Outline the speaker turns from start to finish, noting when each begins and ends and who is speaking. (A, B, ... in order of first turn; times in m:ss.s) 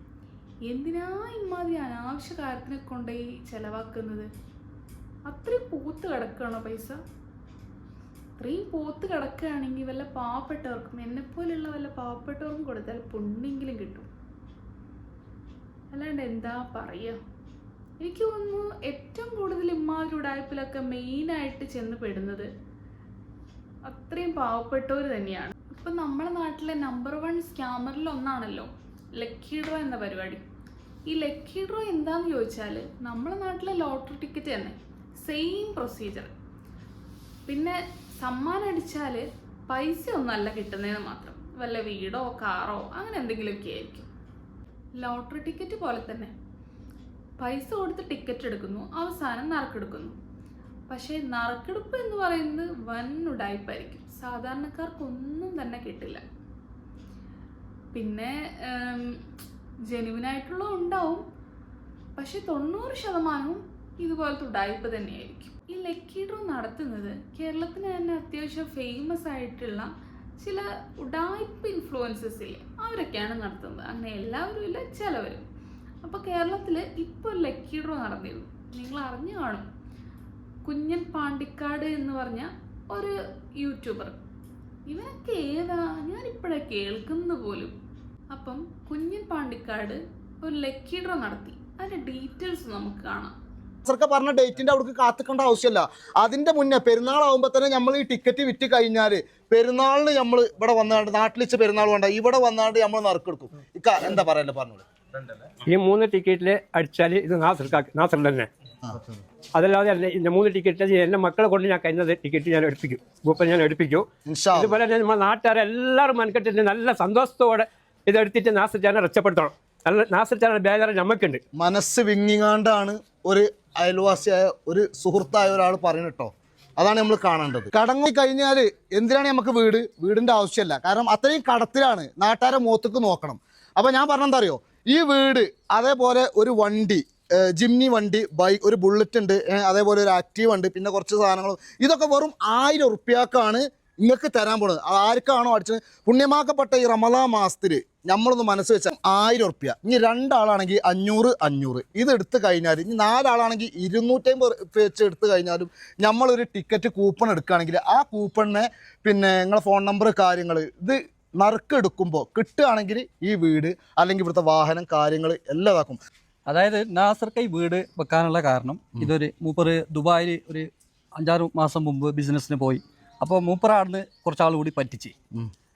0:00.7-0:04.3 A
0:05.2-0:07.0 A
0:08.4-0:14.1 A
0:15.9-0:17.2 A
0:18.0-0:22.5 A
0:23.8-0:30.4 A
0:31.1-0:36.3 A
0:37.4-0:44.1 A
0:45.0-0:46.3 A
0:47.4-0:50.2 A
0:50.9-0:56.2 A
0:57.9-0:59.2 A
0:59.9-1:01.2 A
1:02.2-1:15.4 A
1:16.0-1:19.6 A
1:20.6-1:24.2 A
1:24.8-1:27.7 A
1:28.3-1:33.3 A
1:33.8-1:45.3 B
1:45.7-1:48.5 C
1:49.5-1:54.0 C
1:54.3-1:54.7 B
1:54.6-2:01.4 C
2:01.5-2:46.0 B
2:46.5-2:55.1 D